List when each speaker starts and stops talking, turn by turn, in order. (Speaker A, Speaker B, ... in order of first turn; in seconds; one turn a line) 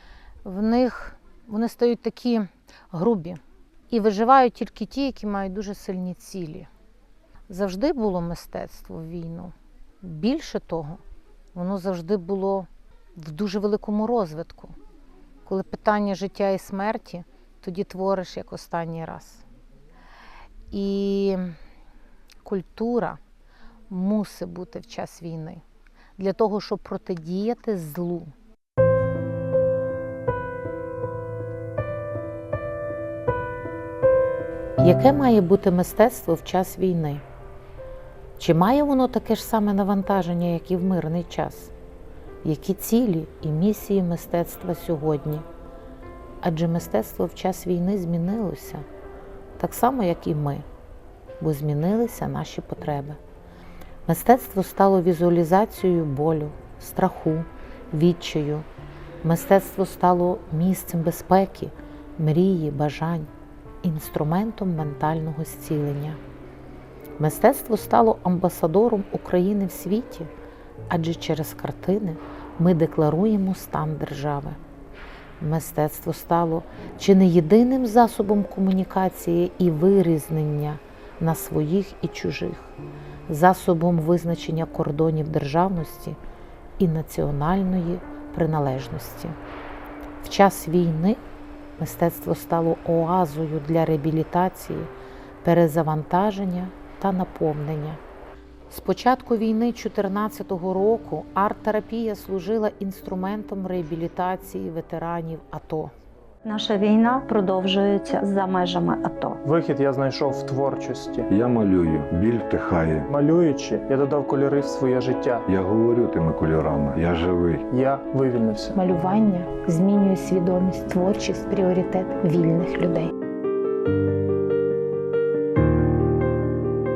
Speaker A: 0.4-6.7
Speaker A: 7.5-11.0
Speaker A: 11.5-14.7
Speaker A: 15.4-19.4
Speaker A: 20.7-21.5
Speaker A: 22.4-23.2
Speaker A: 23.9-25.6
Speaker A: 26.2-28.3
Speaker A: 34.8-37.2
Speaker A: 38.4-41.7
Speaker A: 42.4-45.4
Speaker A: 46.4-48.8
Speaker A: 49.6-50.6
Speaker A: 51.4-53.2
Speaker A: 54.0-58.6
Speaker A: 59.2-63.3
Speaker A: 63.8-66.2
Speaker A: 67.2-70.3
Speaker A: 70.9-74.6
Speaker A: 75.4-82.7
Speaker A: 83.3-86.2
Speaker A: 86.8-89.3
Speaker A: 90.2-91.2
Speaker A: 91.8-94.9
Speaker A: 95.4-98.0
Speaker A: 98.7-105.9
Speaker B: 106.4-109.4
Speaker C: 109.4-111.3
Speaker D: 111.3-113.1
Speaker C: 113.1-115.4
Speaker D: 115.5-117.7
Speaker C: 117.7-118.8
Speaker A: 118.7-123.1